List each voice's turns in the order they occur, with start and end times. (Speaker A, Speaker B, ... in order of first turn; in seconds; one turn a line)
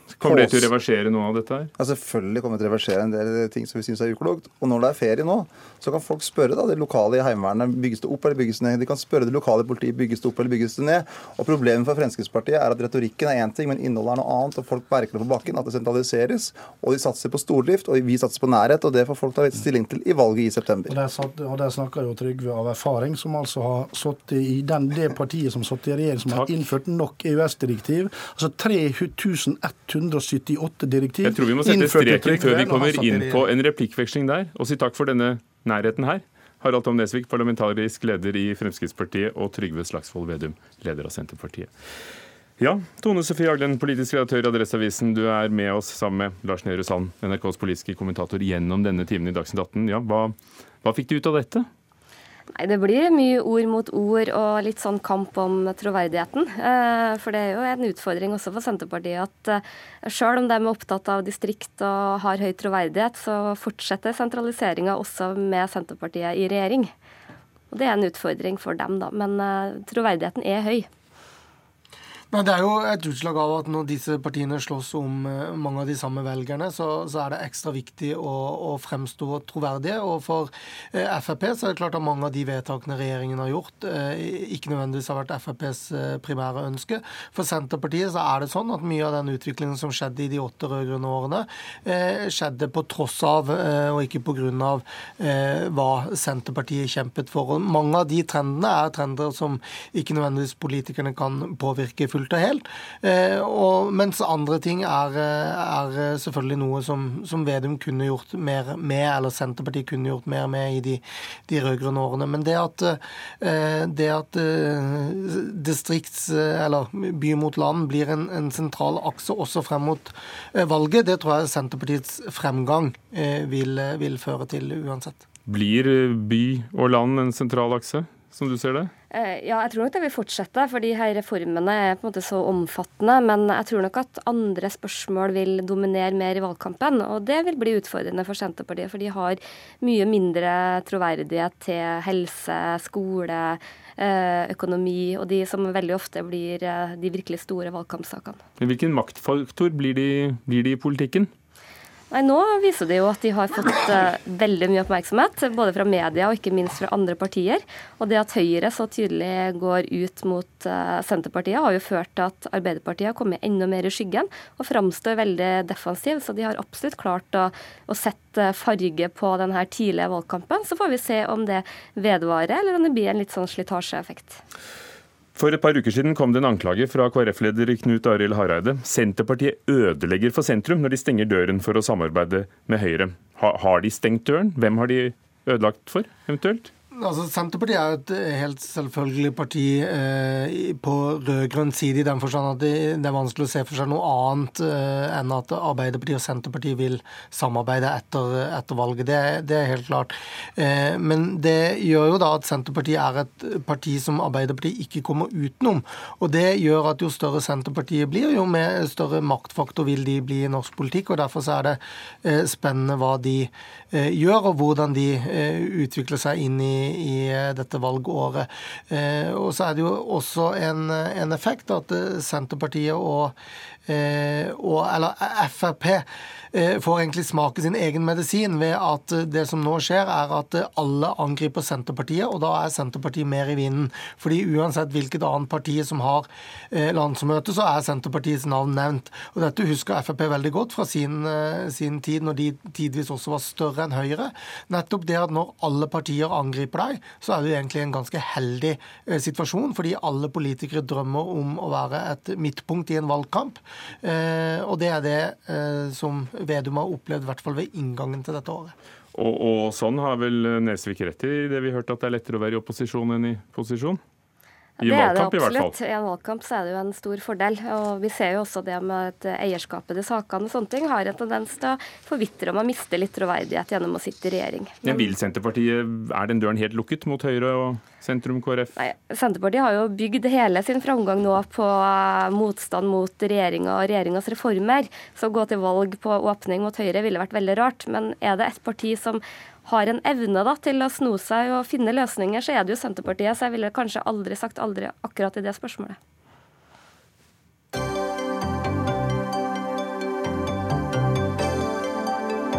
Speaker A: 0.2-1.7
Speaker B: 0.2-0.7
Speaker B: 1.8-20.9
Speaker C: 20.9-33.5
Speaker A: 31.2-41.7
Speaker A: 42.6-51.7
Speaker D: 52.5-66.9
Speaker D: 67.7-70.9
Speaker E: 72.3-125.2
Speaker A: 125.5-128.9
Speaker D: 129.1-148.4
Speaker A: 148.6-151.3
Speaker D: 152.1-174.4
Speaker A: 175.3-186.7
Speaker E: 186.9-223.3
Speaker E: 223.9-258.7
Speaker A: 259.1-264.0
Speaker D: 264.8-275.1
Speaker A: 264.8-265.7
Speaker A: 274.8-278.7
Speaker D: 278.8-296.0